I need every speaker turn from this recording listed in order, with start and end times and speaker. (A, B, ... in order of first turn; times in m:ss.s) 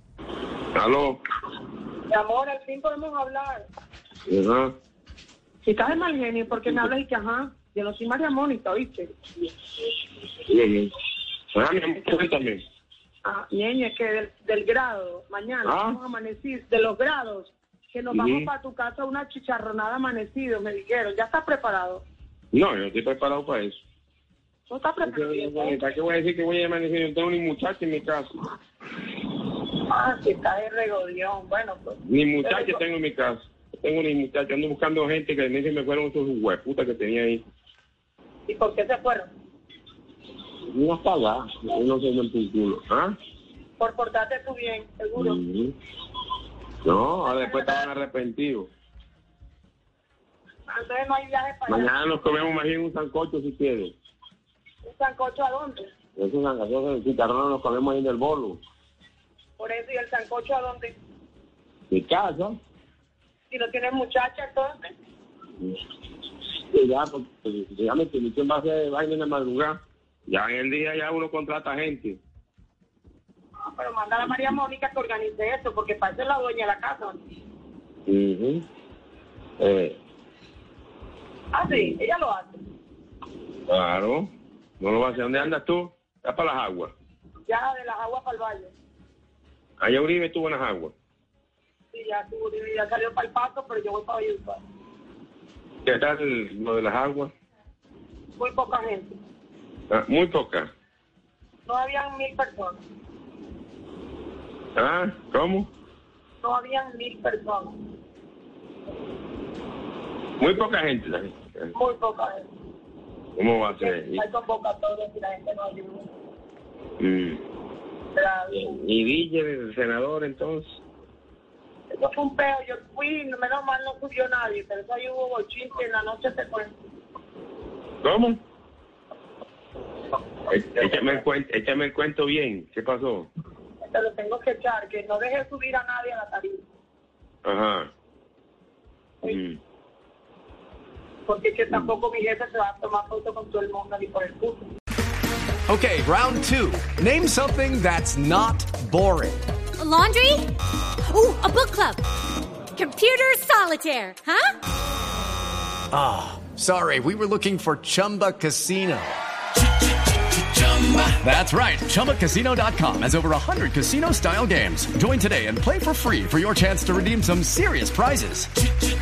0:00.7-0:01.2 A
0:02.1-0:03.6 B
0:04.3-0:04.7 A
0:05.7-0:09.1 B
0:10.5-0:10.9 A
0:11.6-0:12.6 A
0:13.2-0:22.0 B
0:15.6-0:16.0 A
0:18.1-0:18.5 A
0:22.5-0:23.8 A
0:24.7-0:25.9 B
0:25.0-0:28.3 A
0:29.9-0:32.8 B
0:32.0-0:37.4 A
0:38.5-0:39.3 B
0:40.7-0:43.1 A
0:43.8-0:45.4 B
0:45.2-0:45.8 A
0:46.8-0:48.7 A
0:47.2-0:47.8 B
0:50.7-0:51.9 B
0:51.7-0:53.9 A
0:54.8-0:55.9 B
0:56.2-0:58.6 A
0:59.6-1:00.9 B
1:01.9-1:02.6 A
1:03.5-1:04.9 B
1:06.7-1:09.8 A
1:10.3-1:12.2 A
1:13.7-1:17.2 B
1:18.1-1:18.6 A
1:19.6-1:20.0 A
1:21.5-1:22.6 B
1:23.7-1:24.3 A
1:24.8-1:26.9 A
1:27.5-1:28.7 B
1:29.8-1:30.9 A
1:31.9-1:34.6 B
1:35.8-1:37.3 A
1:38.4-1:39.2 B
1:39.9-1:40.7 A
1:41.7-1:42.8 B
1:44.8-1:45.7 A
1:46.4-1:47.8 B
1:50.4-1:51.7 A
1:51.7-1:52.4 B
1:53.4-1:54.2 A
1:53.6-1:56.1 B
1:57.0-1:57.4 A
1:58.2-1:58.7 B
1:58.5-2:00.8 A
2:01.9-2:06.7 B
2:08.0-2:08.4 A
2:10.5-2:13.3 A
2:13.8-2:16.6 B
2:17.4-2:17.9 A
2:19.2-2:19.6 A
2:21.3-2:24.7 B
2:25.7-2:29.4 C
2:29.8-2:30.5 D
2:31.1-2:32.0 D
2:32.8-2:34.6 D
2:35.9-2:39.2 C
2:40.3-2:48.5 C